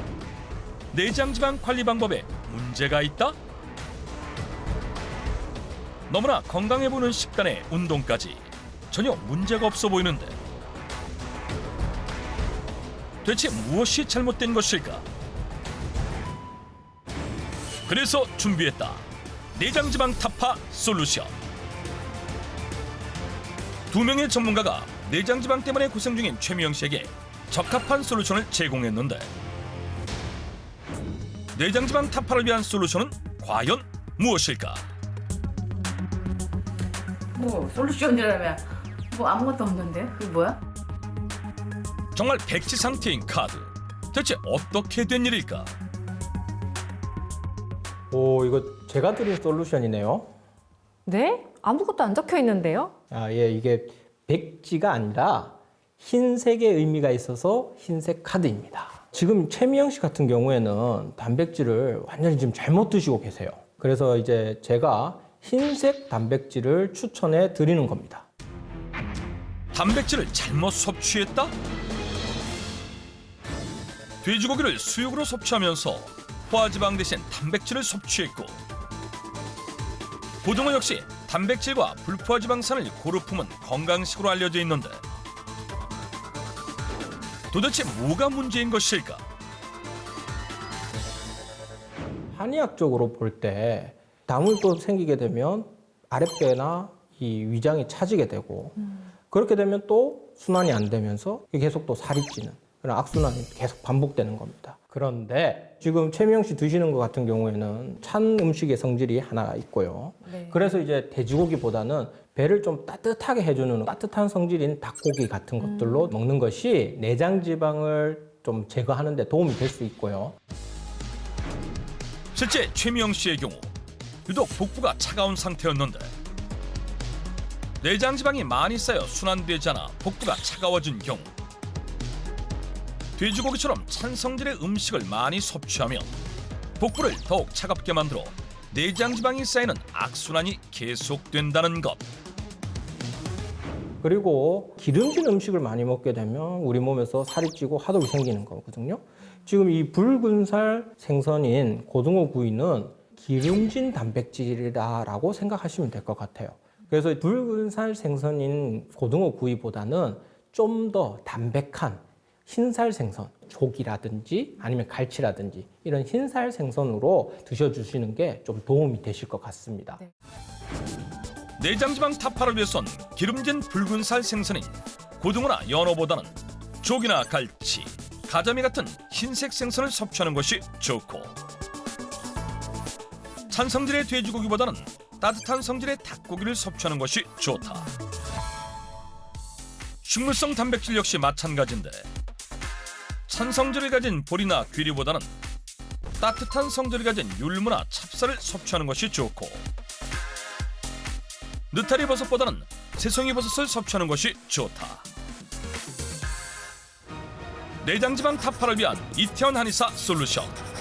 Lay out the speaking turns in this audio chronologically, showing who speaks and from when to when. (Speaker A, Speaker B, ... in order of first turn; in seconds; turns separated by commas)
Speaker A: 0.9-3.4, Speaker A: 6.1-10.4, Speaker A: 13.2-15.1, Speaker A: 17.9-21.3, Speaker A: 23.9-29.3, Speaker A: 31.5-34.9, Speaker B: 37.4-40.6, Speaker A: 42.1-45.7, Speaker C: 48.1-50.3, Speaker D: 51.1-52.9, Speaker C: 53.1-68.3, Speaker A: 69.7-71.5, Speaker A: 74.2-78.6, Speaker A: 80.4-85.0, Speaker A: 87.5-89.2, Speaker C: 92.3-120.4, Speaker D: 110.3-110.5, Speaker D: 115.6-116.1, Speaker A: 122.3-123.7, Speaker A: 124.3-126.1, Speaker A: 127.8-131.3, Speaker A: 133.2-136.1, Speaker A: 136.8-142.1, Speaker C: 144.0-170.0, Speaker A: 171.6-181.4, Speaker A: 183.5-187.9, Speaker A: 190.0-192.1, Speaker A: 193.3-195.3, Speaker A: 196.2-199.6, Speaker A: 201.7-205.1, Speaker A: 207.8-210.6